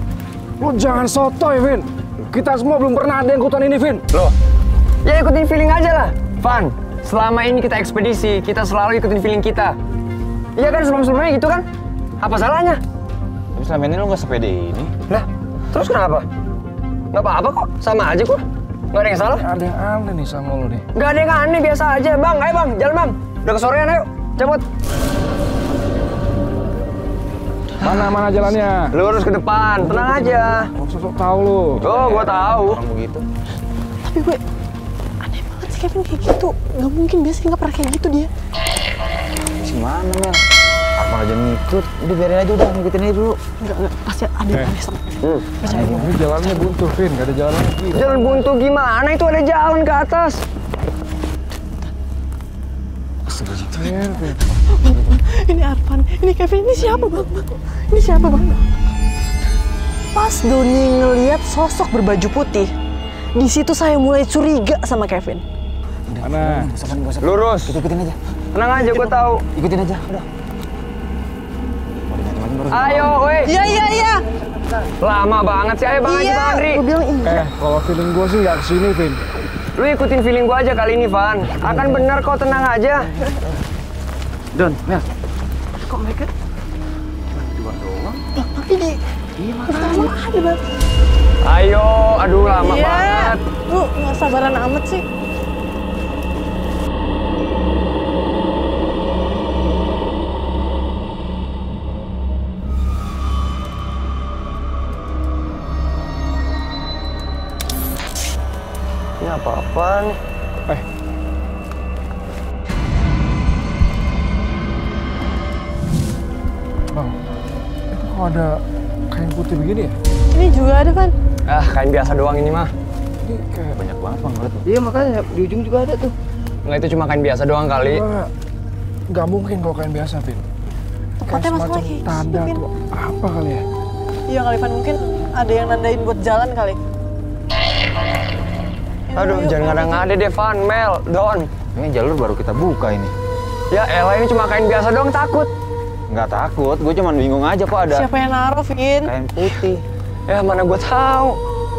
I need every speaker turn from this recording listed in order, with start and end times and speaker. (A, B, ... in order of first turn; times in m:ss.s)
0:00.6-0:04.0 A
0:05.0-0:09.8 B
0:10.6-0:11.6 B
0:12.2-0:12.8 B
0:13.5-0:14.9 C
0:15.1-0:16.2 B
0:17.1-0:19.4 B
0:19.4-0:20.8 A
0:20.9-0:24.6 B
0:27.8-0:28.9 A
0:27.8-0:28.1 B
0:28.9-0:30.7 B
0:29.8-0:31.9 A
0:31.8-0:32.8 B
0:31.9-0:33.2 C
0:34.0-0:34.4 D
0:35.2-0:38.3 D
0:39.6-0:40.4 C
0:41.0-0:43.4 C
0:43.6-0:46.6 D
0:45.2-0:45.5 B
0:45.8-0:48.3 A
0:47.9-0:50.4 B
0:53.4-0:53.7 C
0:53.7-0:54.4 A
0:54.7-0:58.6 D
1:00.1-1:02.7 D
1:03.3-1:05.4 D
1:06.1-1:08.2 C
1:06.2-1:06.7 A
1:07.2-1:07.8 B
1:08.5-1:09.4 B
1:09.5-1:10.3 C
1:12.1-1:13.2 C
1:12.7-1:13.5 B
1:13.4-1:14.3 D
1:15.0-1:16.8 B
1:16.0-1:17.4 D
1:17.2-1:19.2 A
1:19.8-1:23.1 B
1:24.5-1:25.0 C
1:25.8-1:26.3 C
1:27.3-1:28.2 C
1:28.3-1:29.0 D
1:29.4-1:30.1 C
1:29.7-1:30.6 D
1:31.4-1:33.4 B
1:32.5-1:35.0 D
1:49.2-1:50.2 B
1:57.9-2:00.0 A
2:00.3-2:01.1 D
2:01.4-2:02.7 B
2:03.2-2:03.8 A
2:03.8-2:06.1 C
2:06.6-2:08.0 B
2:07.8-2:08.3 A
2:09.1-2:10.4 A
2:11.2-2:12.6 D
2:11.2-2:13.6 A
2:14.3-2:16.8 D
2:19.1-2:20.1 D
2:19.1-2:21.5 B
2:21.7-2:23.1 C
2:23.7-2:25.5 B
2:26.1-2:28.1 C
2:27.8-2:29.1 D
2:29.0-2:29.8 C
2:30.3-2:31.4 B